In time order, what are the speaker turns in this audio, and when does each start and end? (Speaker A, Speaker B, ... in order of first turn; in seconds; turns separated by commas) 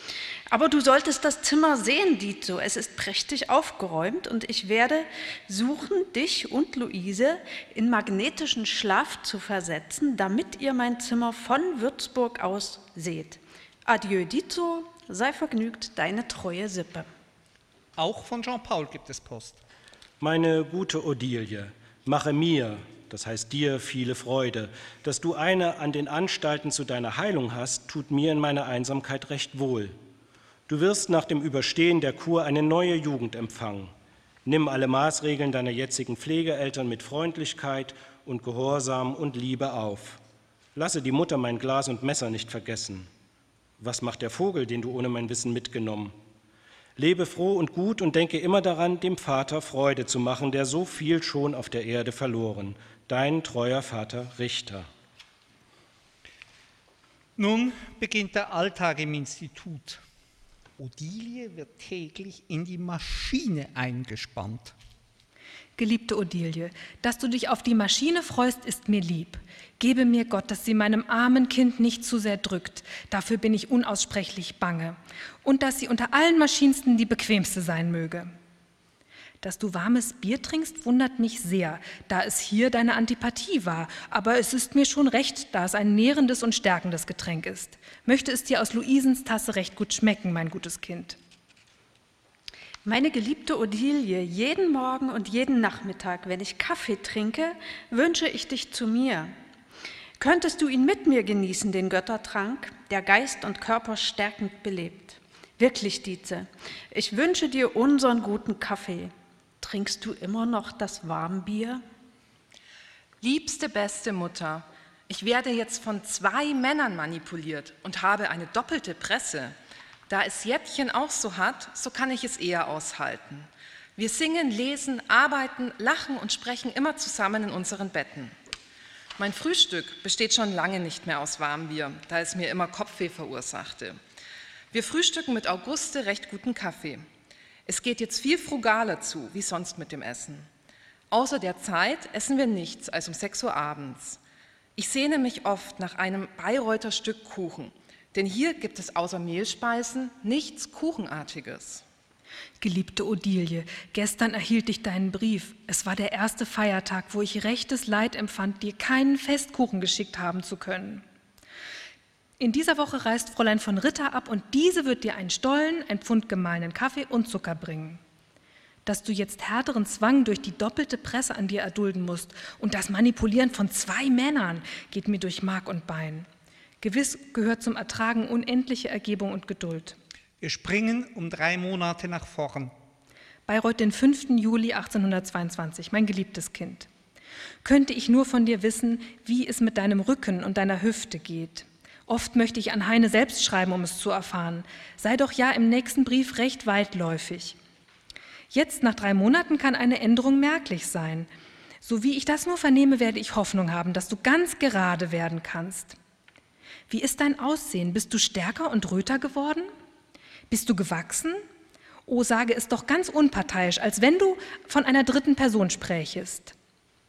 Speaker A: 0.5-17.1, Speaker B: 18.0-19.6, Speaker C: 20.2-29.9, Speaker C: 30.7-33.9, Speaker C: 34.4-40.2, Speaker C: 40.7-43.1, Speaker C: 43.8-46.1, Speaker C: 47.0-54.9, Speaker B: 57.4-60.0, Speaker B: 60.8-64.7, Speaker D: 65.8-78.3, Speaker D: 79.4-91.2, Speaker A: 92.8-99.3, Speaker A: 100.2-111.8, Speaker E: 113.2-119.5, Speaker E: 120.1-128.3, Speaker E: 129.2-134.0, Speaker E: 134.7-137.1, Speaker E: 137.7-140.5, Speaker E: 141.1-144.2, Speaker E: 144.8-151.8, Speaker D: 152.6-161.0, Speaker D: 162.4-168.0, Speaker D: 168.8-176.3, Speaker D: 176.8-180.0, Speaker B: 180.4-182.7, Speaker D: 183.5-186.9, Speaker D: 187.6-197.6, Speaker D: 198.5-201.3, Speaker D: 201.8-206.0, Speaker D: 206.9-209.7, Speaker D: 210.5-211.4, Speaker D: 212.1-216.5